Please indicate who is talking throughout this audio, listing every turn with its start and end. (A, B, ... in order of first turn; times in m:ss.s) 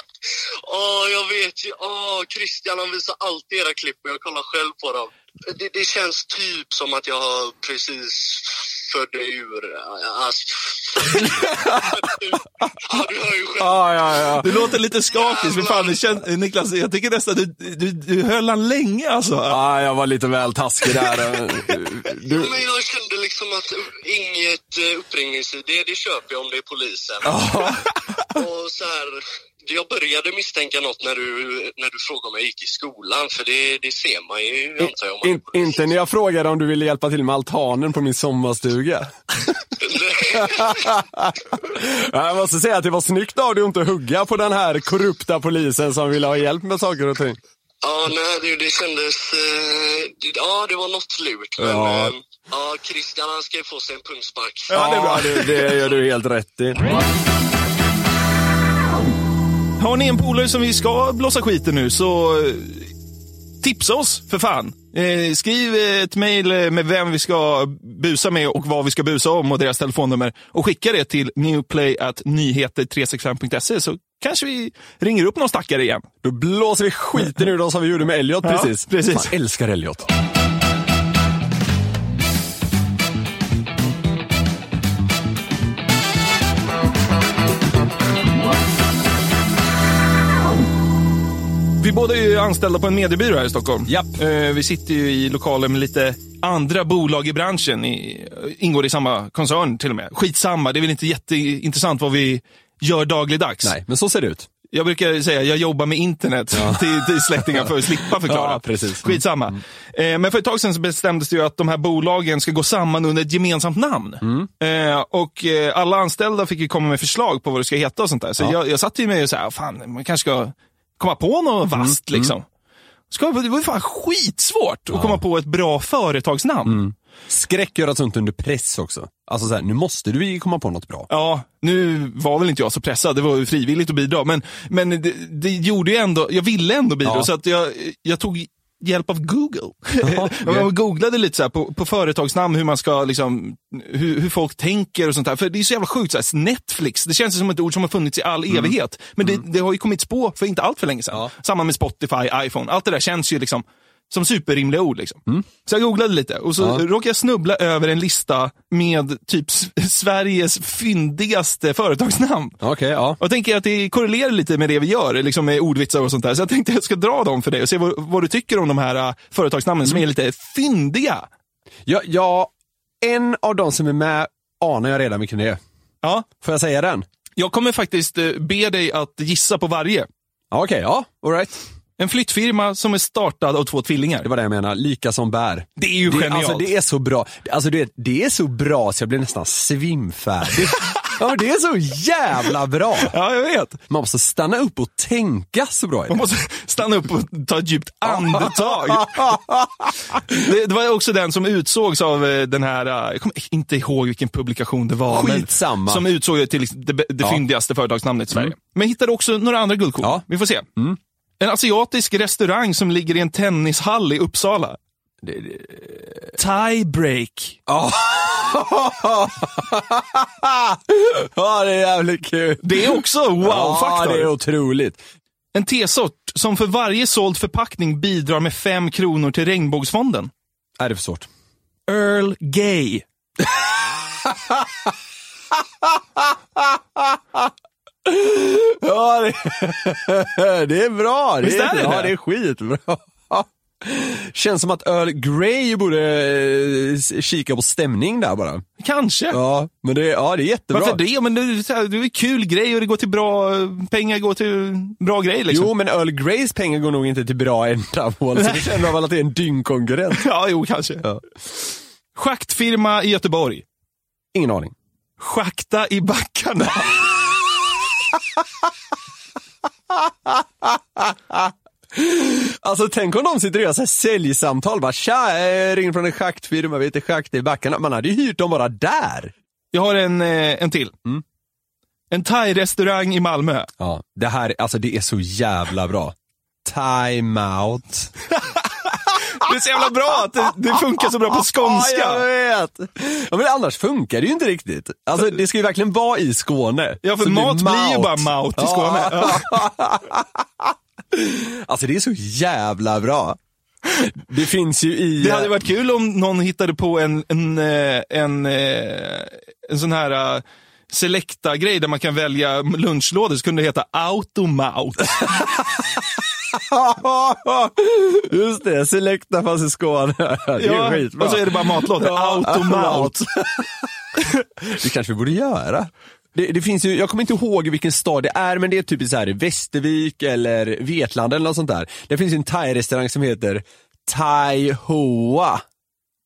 0:00.6-0:13.8 A
0:11.1-0:12.7 B
0:13.6-0:14.5 B
0:14.4-0:19.6 C
0:15.1-0:16.0 A
0:19.5-0:22.5 B
0:22.3-0:27.3 A
0:27.2-0:28.0 B
0:28.3-0:35.8 A
0:34.8-0:39.1 B
0:39.8-0:40.9 A
0:40.3-0:47.4 B
0:47.8-0:54.7 A
0:51.6-0:52.1 B
0:54.7-0:55.7 C
0:54.7-0:56.8 B
0:59.8-1:02.9 C
1:03.6-1:16.1 C
1:16.2-1:20.1 B
1:18.4-1:19.3 C
1:31.8-1:43.7 C
1:33.9-1:34.2 B
1:43.6-1:44.5 B
1:44.7-2:02.4 C
1:46.5-1:49.2 B
1:54.2-1:54.5 B
2:01.8-2:02.3 B
2:03.1-2:06.8 C
2:04.9-2:05.2 B
2:06.6-2:11.1 B
2:11.1-2:42.6 C
2:20.0-2:20.7 B
2:28.5-2:29.4 B
2:42.6-2:43.2 B
2:43.2-2:51.3 C
2:51.9-2:52.5 B
2:53.0-2:55.6 B
2:56.4-2:57.1 B
2:57.4-3:00.1 C
3:00.5-3:01.6 B
3:02.0-3:04.3 C
3:04.2-3:13.1 B
3:05.8-3:06.7 C
3:13.1-3:13.8 C
3:13.9-3:16.2 B
3:16.1-3:19.3 C
3:18.1-3:20.4 B
3:20.3-3:30.7 C
3:25.1-3:26.0 B
3:31.4-3:34.8 C
3:35.2-3:36.3 B
3:36.4-3:37.6 C
3:37.7-3:45.0 B
3:42.6-3:44.3 C
3:45.5-3:50.3 C
3:50.8-3:51.3 B
3:51.9-3:53.0 C
3:54.2-3:54.6 B
3:56.2-3:57.5 B
3:58.1-4:08.6 B
4:01.4-4:02.1 C
4:08.8-4:09.4 C
4:09.3-4:11.0 B
4:10.7-4:15.7 C
4:15.5-4:20.3 B
4:18.4-4:18.9 C
4:20.1-4:21.1 C
4:22.2-4:23.6 C
4:24.3-4:24.7 B
4:25.2-4:27.5 C
4:29.9-4:39.3 B
4:39.7-4:41.0 C
4:42.1-4:43.7 C
4:43.8-4:48.1 B
4:48.4-4:52.2 C
4:51.3-5:03.4 B
4:57.0-4:59.6 C
5:04.2-5:05.5 B
5:05.2-5:15.2 C
5:16.5-5:23.8 B
5:20.6-5:23.2 C
5:24.6-5:35.6 B